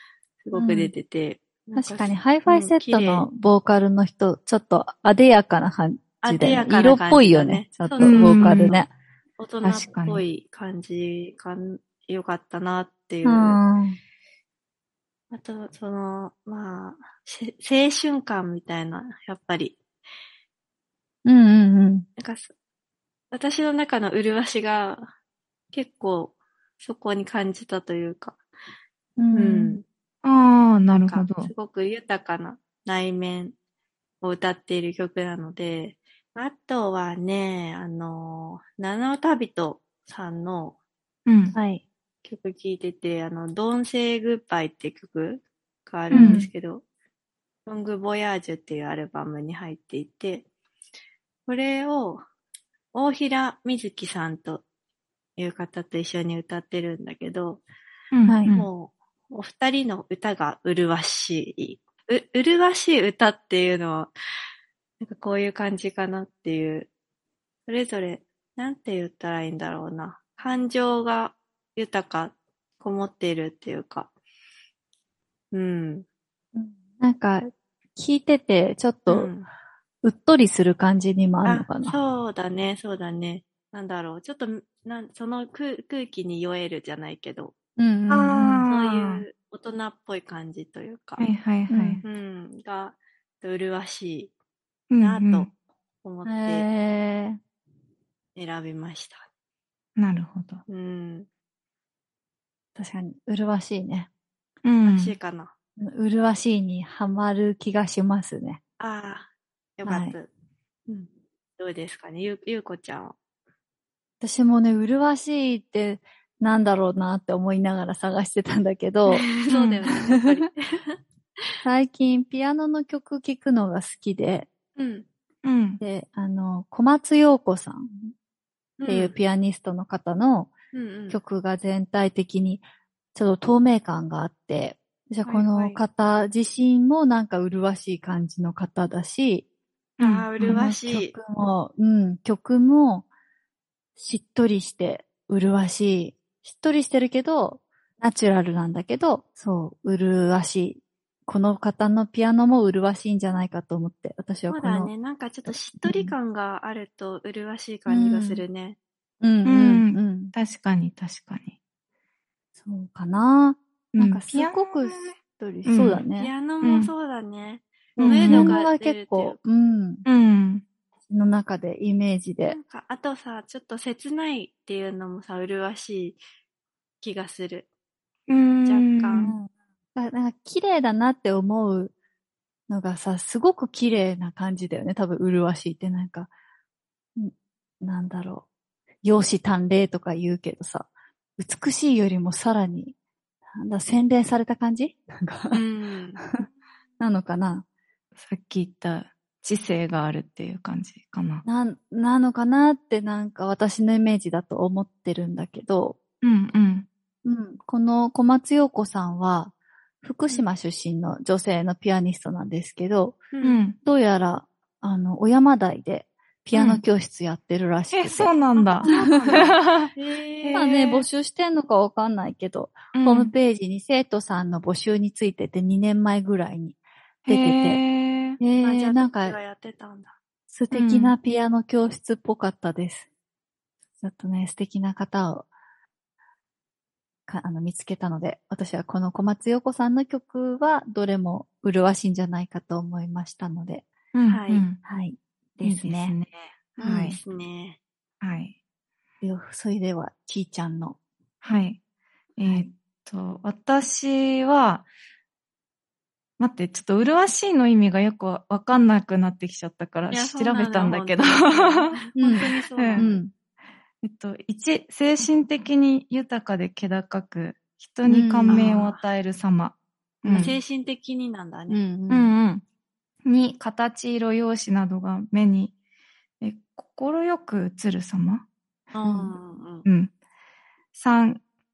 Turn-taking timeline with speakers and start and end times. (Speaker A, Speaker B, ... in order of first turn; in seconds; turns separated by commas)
Speaker A: 0.4-3.3, Speaker B: 0.5-0.9, Speaker B: 1.8-8.9, Speaker A: 6.2-8.9, Speaker C: 8.0-8.8, Speaker A: 9.4-13.6, Speaker C: 9.6-10.2, Speaker B: 13.2-14.0, Speaker A: 15.3-19.8, Speaker B: 21.2-22.1, Speaker A: 22.2-22.5, Speaker A: 23.3-25.1, Speaker A: 25.7-28.4, Speaker B: 29.2-29.8, Speaker A: 29.3-29.8, Speaker C: 30.2-31.5, Speaker A: 30.9-33.5, Speaker A: 34.2-40.8, Speaker C: 41.3-41.6, Speaker B: 41.5-41.8, Speaker A: 42.2-46.8, Speaker B: 46.1-46.5, Speaker C: 46.1-46.4, Speaker A: 47.7-50.5, Speaker A: 51.5-52.2, Speaker A: 52.9-54.6, Speaker A: 55.4-57.6, Speaker C: 58.1-58.7, Speaker A: 58.5-64.1, Speaker A: 65.0-66.9, Speaker A: 67.7-74.1, Speaker A: 75.5-76.0, Speaker B: 76.5-79.3, Speaker A: 79.1-79.5, Speaker B: 80.0-82.0, Speaker A: 81.4-87.5, Speaker B: 87.8-88.6, Speaker C: 88.1-89.2, Speaker A: 88.7-91.3, Speaker C: 91.2-92.0, Speaker B: 91.7-92.0, Speaker A: 92.0-94.3, Speaker C: 94.9-95.5, Speaker A: 95.0-95.5, Speaker A: 96.0-96.7, Speaker B: 96.3-97.4, Speaker A: 98.3-99.3, Speaker C: 100.0-100.6, Speaker A: 100.7-101.3, Speaker B: 102.8-104.1, Speaker C: 104.7-105.2, Speaker A: 104.8-105.5, Speaker B: 105.8-108.6, Speaker A: 108.8-110.3, Speaker B: 109.9-110.2, Speaker A: 110.9-113.2, Speaker B: 114.2-119.3, Speaker A: 119.1-121.0, Speaker C: 119.5-119.8, Speaker B: 121.7-124.5, Speaker A: 124.8-125.1, Speaker C: 125.4-125.8, Speaker B: 125.8-128.1, Speaker A: 128.8-129.2, Speaker B: 128.9-130.5, Speaker A: 130.7-131.2, Speaker B: 131.1-139.4, Speaker A: 135.2-135.8, Speaker C: 140.0-140.6, Speaker A: 140.0-141.2, Speaker B: 140.4-143.1, Speaker B: 144.0-154.9, Speaker A: 154.5-158.8, Speaker B: 155.5-156.1, Speaker B: 157.9-158.4, Speaker B: 159.2-160.3, Speaker C: 159.4-161.6, Speaker B: 162.6-166.3, Speaker C: 163.9-166.0, Speaker A: 166.2-169.4, Speaker C: 166.6-166.9, Speaker C: 168.0-168.6, Speaker B: 168.0-170.1, Speaker C: 170.1-170.7, Speaker B: 171.1-172.6, Speaker A: 172.5-176.2, Speaker A: 177.0-177.7, Speaker C: 178.3-179.3, Speaker A: 178.7-179.3, Speaker B: 179.2-181.9, Speaker B: 182.7-186.3, Speaker B: 187.2-188.5, Speaker B: 189.0-193.0, Speaker B: 193.5-195.6, Speaker A: 195.5-196.2, Speaker B: 197.0-197.7, Speaker C: 198.2-201.4, Speaker B: 201.4-206.0, Speaker C: 206.2-206.9, Speaker B: 207.2-213.3, Speaker A: 213.3-213.6, Speaker C: 213.4-213.8, Speaker B: 213.8-218.3, Speaker C: 216.5-216.8, Speaker C: 217.9-219.9, Speaker A: 218.6-220.7, Speaker B: 218.9-219.4, Speaker C: 220.4-221.1, Speaker B: 220.5-227.8, Speaker C: 222.9-223.3, Speaker C: 227.3-228.4, Speaker B: 228.4-229.4, Speaker A: 228.6-230.2, Speaker B: 230.5-233.1, Speaker C: 230.7-231.2, Speaker B: 234.0-235.5, Speaker B: 237.3-243.9, Speaker C: 244.1-244.8, Speaker A: 244.3-244.7, Speaker B: 244.8-246.2, Speaker C: 245.6-247.2, Speaker A: 246.8-247.8, Speaker C: 248.2-248.6, Speaker B: 249.2-251.0, Speaker C: 251.4-251.8, Speaker C: 252.4-254.9, Speaker C: 256.4-263.1, Speaker A: 260.1-263.2, Speaker B: 262.2-263.3, Speaker C: 264.0-270.6, Speaker B: 268.1-268.8, Speaker A: 268.5-269.0, Speaker A: 270.3-271.8, Speaker B: 271.7-272.3, Speaker C: 272.1-272.6, Speaker C: 273.2-275.7, Speaker C: 276.4-278.4, Speaker A: 278.9-279.9, Speaker B: 279.0-279.3, Speaker C: 279.9-280.1, Speaker C: 280.9-281.4